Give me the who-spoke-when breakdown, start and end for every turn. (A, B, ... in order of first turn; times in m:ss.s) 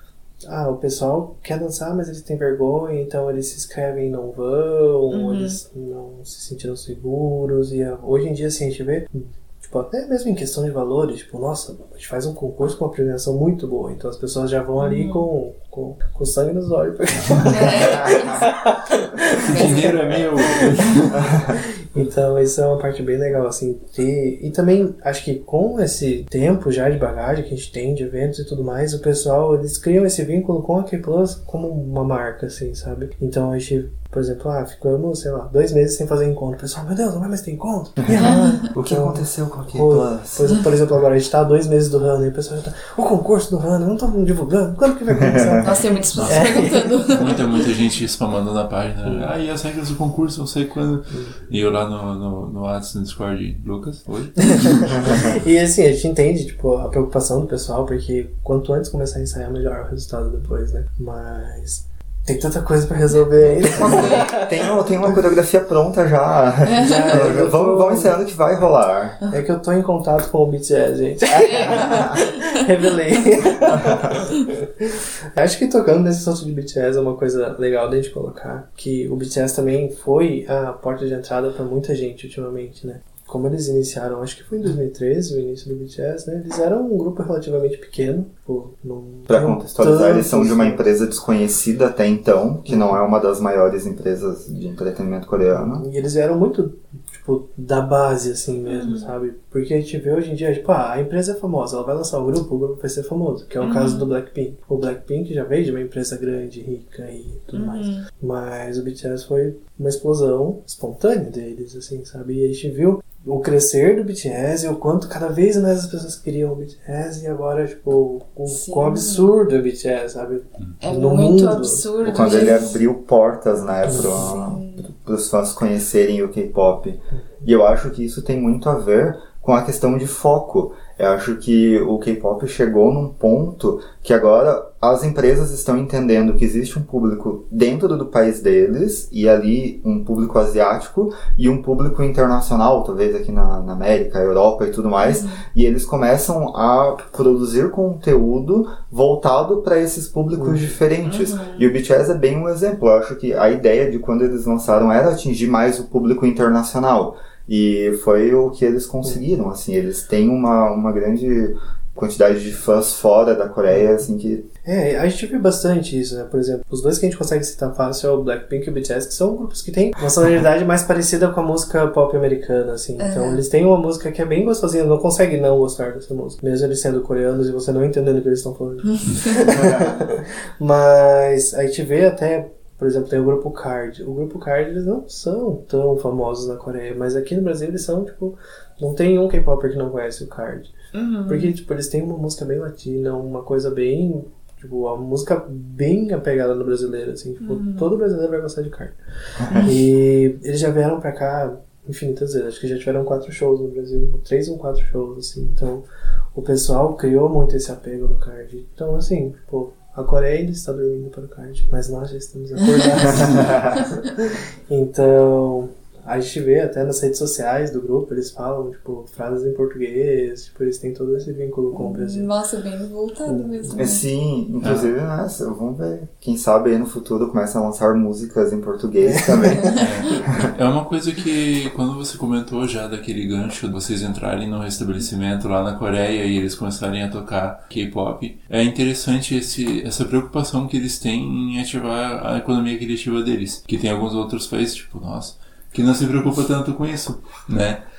0:00.4-0:20.9 A
0:05.1-0:05.6 B
0:14.8-0:15.2 B
0:17.4-0:18.5 B
0:19.5-0:21.2 C
0:19.5-0:20.0 B
0:21.1-0:21.5 D
0:21.5-0:47.1 A
0:38.0-0:40.7 D
0:38.2-0:38.5 B
0:45.2-0:45.7 D
0:45.6-0:47.4 B
0:46.2-0:46.5 C
0:47.0-0:55.2 C
0:49.0-0:49.3 A
0:54.4-1:04.5 A
0:54.9-0:55.3 D
1:03.6-1:09.2 D
1:03.8-1:04.3 B
1:06.6-1:07.3 B
1:06.8-1:08.2 A
1:09.3-1:30.8 A
1:11.3-1:12.2 D
1:11.4-1:12.5 B
1:29.3-1:35.8 D
1:32.7-1:33.0 A
1:35.5-2:01.8 A
1:38.7-1:39.1 B
1:43.6-1:44.1 B
1:47.5-1:48.1 B
1:58.5-1:59.3 B
2:00.8-2:02.8 B
2:02.0-2:44.5 D
2:03.8-2:04.5 A
2:03.9-2:04.9 B
2:25.0-2:25.4 B
2:30.4-2:30.7 A
2:31.0-2:31.7 B
2:43.7-2:44.0 A
2:44.6-3:10.7 A
2:53.0-2:53.4 B
2:58.9-2:59.5 B
2:59.5-2:59.9 D
3:10.9-3:11.5 B
3:11.3-3:19.0 A
3:17.4-3:17.9 B
3:19.4-3:19.7 D
3:19.5-3:19.8 B
3:19.6-3:42.3 A
3:32.7-3:34.0 B
3:33.2-3:33.7 D
3:41.7-3:44.0 B
3:43.3-3:43.8 A
3:43.8-3:50.5 D
3:44.6-3:44.9 C
3:49.0-3:49.8 A
3:49.8-4:07.8 C